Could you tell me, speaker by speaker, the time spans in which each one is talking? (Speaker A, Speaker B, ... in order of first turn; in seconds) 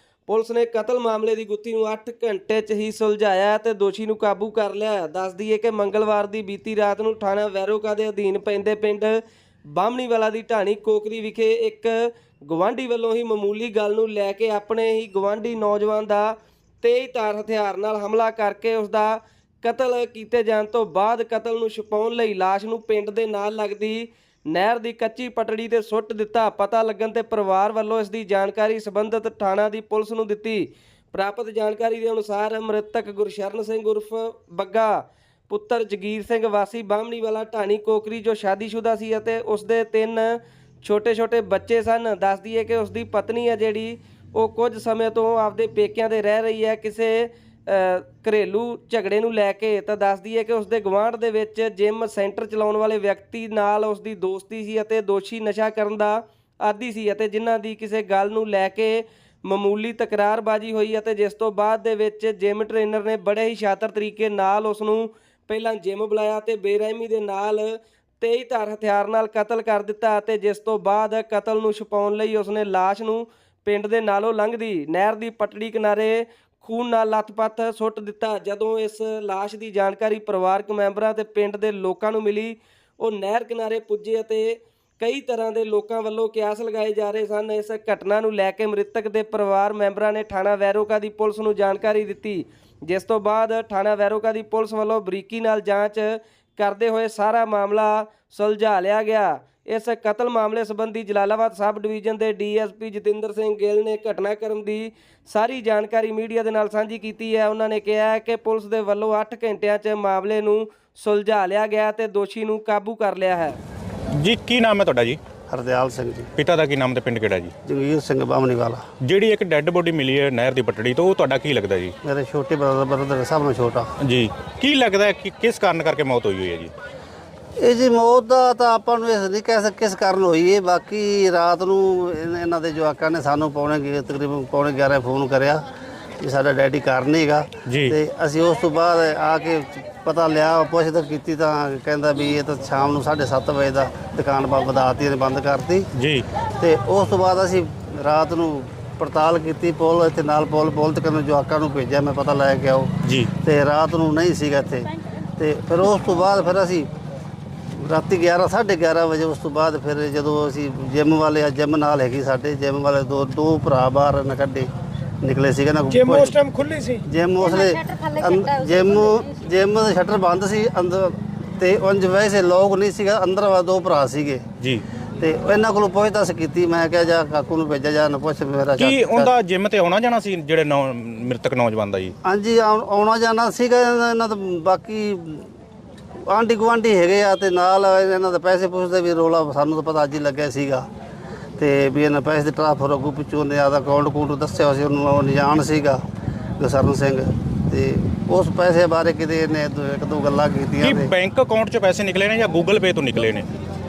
Speaker A: 0.3-9.2, 9.8-11.9, 12.4-35.0, 35.5-113.6
Speaker B: 114.2-115.2, 116.3-117.5, 119.0-121.9, 124.0-126.7, 137.7-137.9, 145.9-146.2, 153.0-153.3, 178.8-182.1, 200.8-203.5
Speaker C: 115.5-116.3, 117.6-118.8, 122.0-123.9, 127.6-135.6, 136.2-145.9, 146.6-156.9, 157.8-164.7, 165.2-166.5, 167.0-174.4, 175.2-179.3, 182.2-185.5, 186.3-190.9, 191.6-196.0, 196.6-201.1